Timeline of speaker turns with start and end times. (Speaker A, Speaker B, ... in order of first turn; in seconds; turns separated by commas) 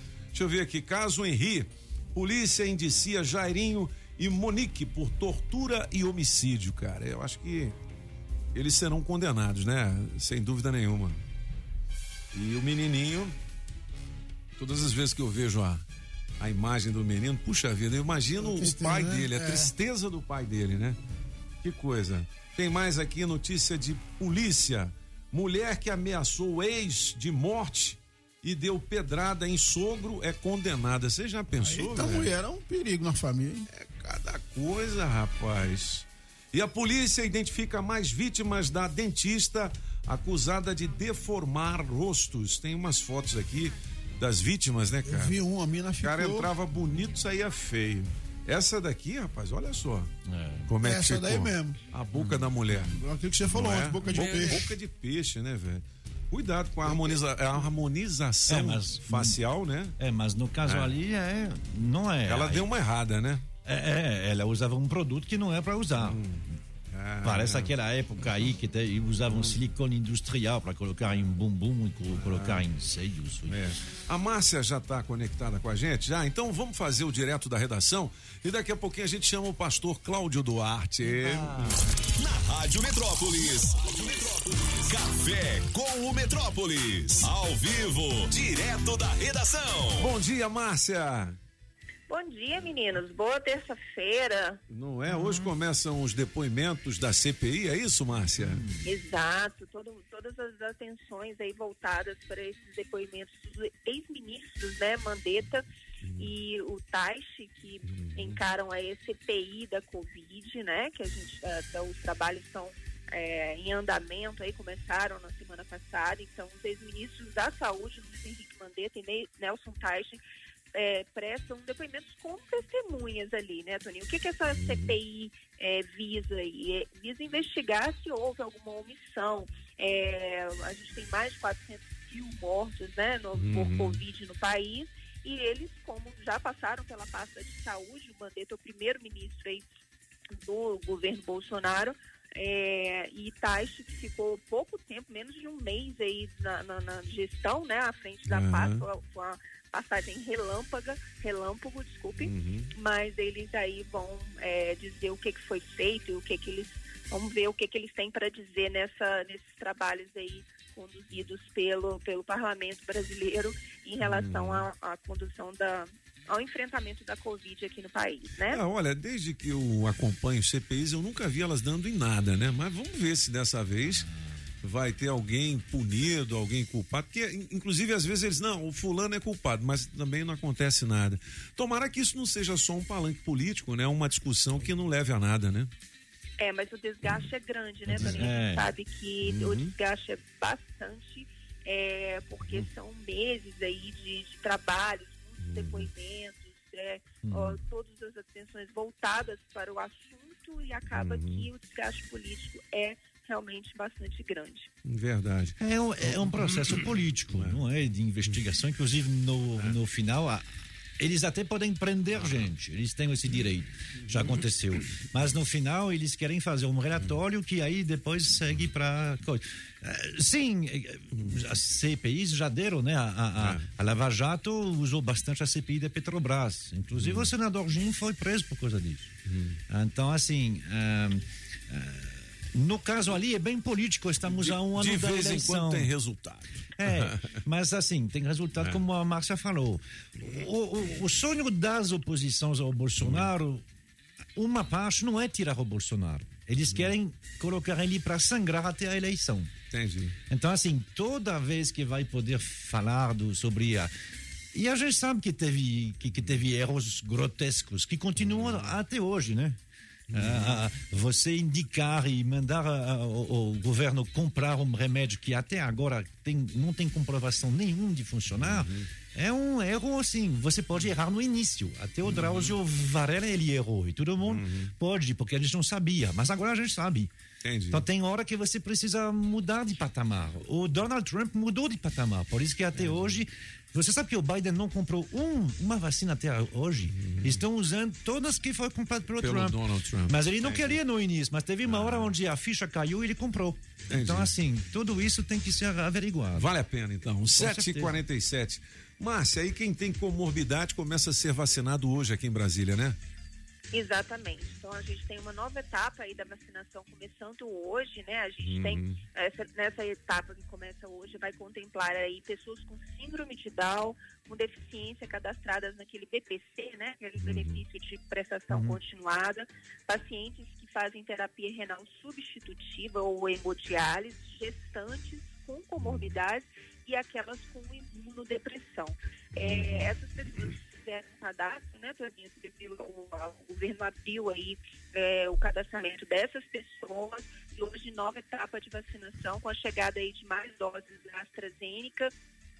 Speaker A: 0.3-7.7, Speaker A: 8.5-11.2, Speaker A: 12.3-13.3, Speaker A: 14.6-15.8, Speaker A: 16.4-21.0, Speaker B: 18.4-19.7, Speaker A: 21.6-32.3, Speaker B: 31.6-33.6, Speaker A: 33.7-45.3, Speaker B: 45.0-46.5, Speaker A: 46.0-50.1, Speaker C: 50.2-50.7, Speaker A: 50.7-59.9, Speaker B: 50.8-51.8, Speaker B: 52.9-54.6, Speaker C: 54.1-54.4, Speaker C: 58.5-59.4, Speaker C: 60.0-62.6, Speaker A: 60.6-60.9, Speaker A: 62.3-63.4, Speaker C: 63.6-66.2, Speaker A: 66.0-66.4, Speaker A: 66.9-67.7, Speaker C: 67.2-73.6, Speaker A: 72.1-72.6, Speaker A: 73.5-81.8, Speaker C: 81.0-81.8, Speaker D: 82.2-90.1, Speaker A: 90.0-91.3, Speaker E: 92.1-94.6, Speaker A: 94.7-98.6, Speaker C: 95.1-95.5, Speaker C: 98.4-98.7, Speaker E: 98.8-105.6, Speaker A: 106.0-106.3, Speaker E: 106.2-120.2, Speaker A: 107.8-108.4, Speaker E: 120.7-139.7, Speaker A: 124.5-125.0, Speaker A: 133.3-134.0, Speaker E: 140.3-168.6, Speaker A: 148.3-148.8, Speaker A: 152.2-152.7, Speaker A: 164.0-164.7, Speaker A: 168.4-174.1, Speaker A: 174.6-185.7, Speaker E: 186.4-204.7, Speaker C: 187.9-188.7, Speaker A: 187.9-188.3, Speaker A: 189.2-189.7, Speaker A: 195.4-195.9, Speaker C: 197.2-197.5, Speaker A: 200.9-201.5, Speaker A: 204.8-205.5, Speaker C: 205.6-210.4, Speaker A: 206.1-207.6, Speaker C: 211.0-229.1, Speaker A: 212.2-212.4, Speaker A: 214.1-214.4, Speaker A: 221.1-221.4, Speaker A: 223.4-223.6, Speaker A: 227.0-227.3, Speaker A: 229.3-229.6, Speaker C: 229.7-235.9, Speaker A: 234.3-237.3, Speaker C: 236.8-243.6, Speaker A: 243.0-243.3, Speaker C: 244.3-249.5, Speaker A: 249.7-250.1, Speaker C: 250.3-253.9, Speaker C: 254.5-259.6, Speaker A: 258.2-258.7, Speaker A: 260.1-260.6, Speaker C: 260.1-277.1, Speaker A: 268.4-268.9, Speaker A: 272.0-272.5, Speaker A: 274.2-274.7, Speaker A: 277.4-277.8, Speaker C: 277.7-289.6, Speaker A: 282.8-283.1, Speaker A: 286.9-287.4, Speaker A: 289.2-290.8, Speaker C: 290.1-296.5, Speaker A: 291.6-292.1, Speaker A: 293.9-294.3, Speaker A: 296.4-303.0, Speaker C: 297.3-298.0, Speaker E: 303.7-342.1, Speaker A: 308.4-309.0, Speaker A: 317.2-317.6, Speaker C: 318.5-318.8, Speaker A: 329.4-329.9